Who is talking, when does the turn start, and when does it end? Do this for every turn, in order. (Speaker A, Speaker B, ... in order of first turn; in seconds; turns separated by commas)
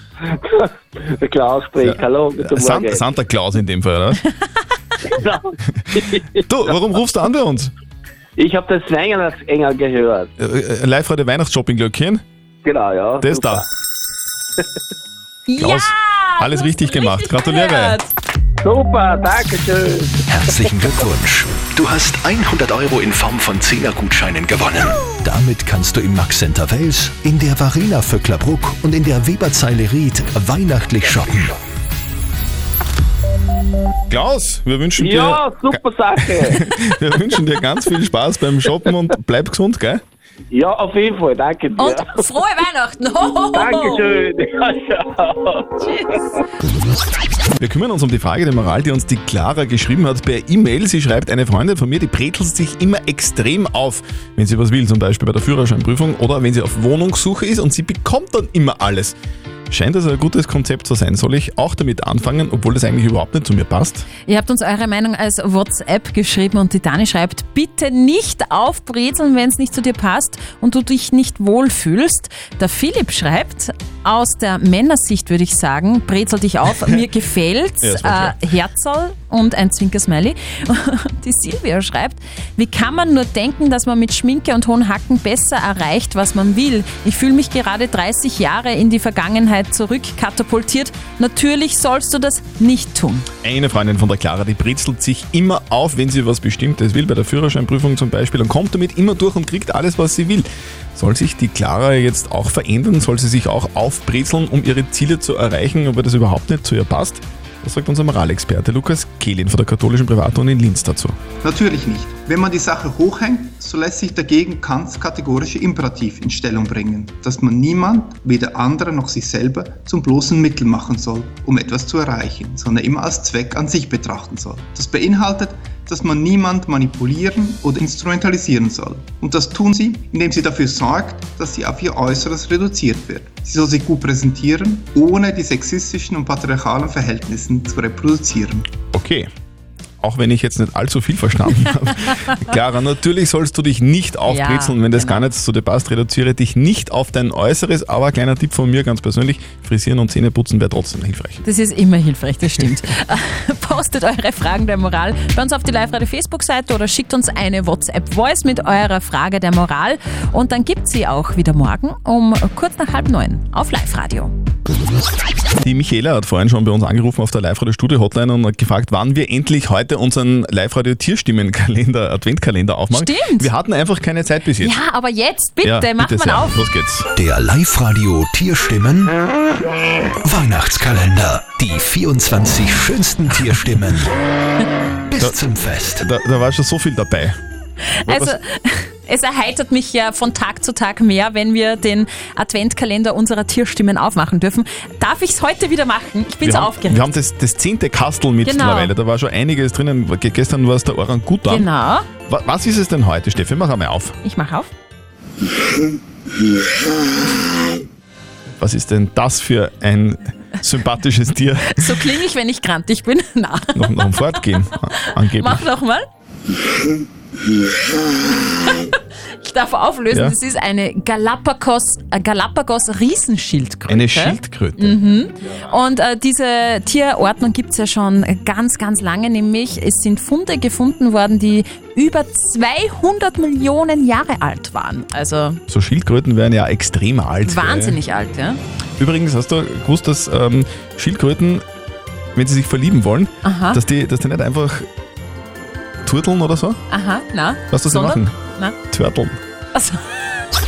Speaker A: 0.3-3.0, Speaker B: 1.8-4.2, Speaker A: 5.1-6.4, Speaker B: 6.4-7.7, Speaker A: 8.4-10.3, Speaker B: 10.4-12.2, Speaker A: 12.6-13.7, Speaker B: 13.2-13.7, Speaker C: 15.5-18.1, Speaker B: 15.6-18.0, Speaker A: 18.6-20.2, Speaker D: 20.3-31.6, Speaker B: 34.1-40.0, Speaker A: 35.0-36.7, Speaker A: 40.5-42.2, Speaker C: 41.8-44.1, Speaker A: 43.5-45.8, Speaker B: 47.6-59.2, Speaker B: 59.7-64.1, Speaker C: 64.3-93.3, Speaker B: 77.8-78.4, Speaker B: 93.4-111.2, Speaker E: 111.4-138.6, Speaker B: 138.9-139.3, Speaker B: 140.0-151.4, Speaker C: 144.3-145.3, Speaker C: 151.4-164.3, Speaker B: 165.6-174.8, Speaker C: 172.9-173.5, Speaker C: 174.6-176.6, Speaker B: 175.6-177.1, Speaker D: 177.2-179.2, Speaker D: 180.2-184.1, Speaker D: 185.1-186.1, Speaker B: 185.9-187.4, Speaker C: 187.9-197.1, Speaker B: 188.1-188.4, Speaker B: 196.4-201.7, Speaker C: 198.4-198.9, Speaker C: 201.5-202.1, Speaker B: 202.3-204.2, Speaker C: 204.2-204.7, Speaker B: 208.6-212.1, Speaker C: 211.7-216.1, Speaker B: 213.8-215.6, Speaker C: 218.5-235.6, Speaker B: 220.1-220.4, Speaker B: 223.9-225.7, Speaker B: 235.7-238.0, Speaker C: 237.4-238.6, Speaker B: 239.0-241.6, Speaker B: 242.3-244.9, Speaker C: 243.4-243.8, Speaker B: 246.0-246.8, Speaker C: 246.9-248.8, Speaker B: 247.7-248.3, Speaker B: 248.9-249.4, Speaker C: 249.7-250.0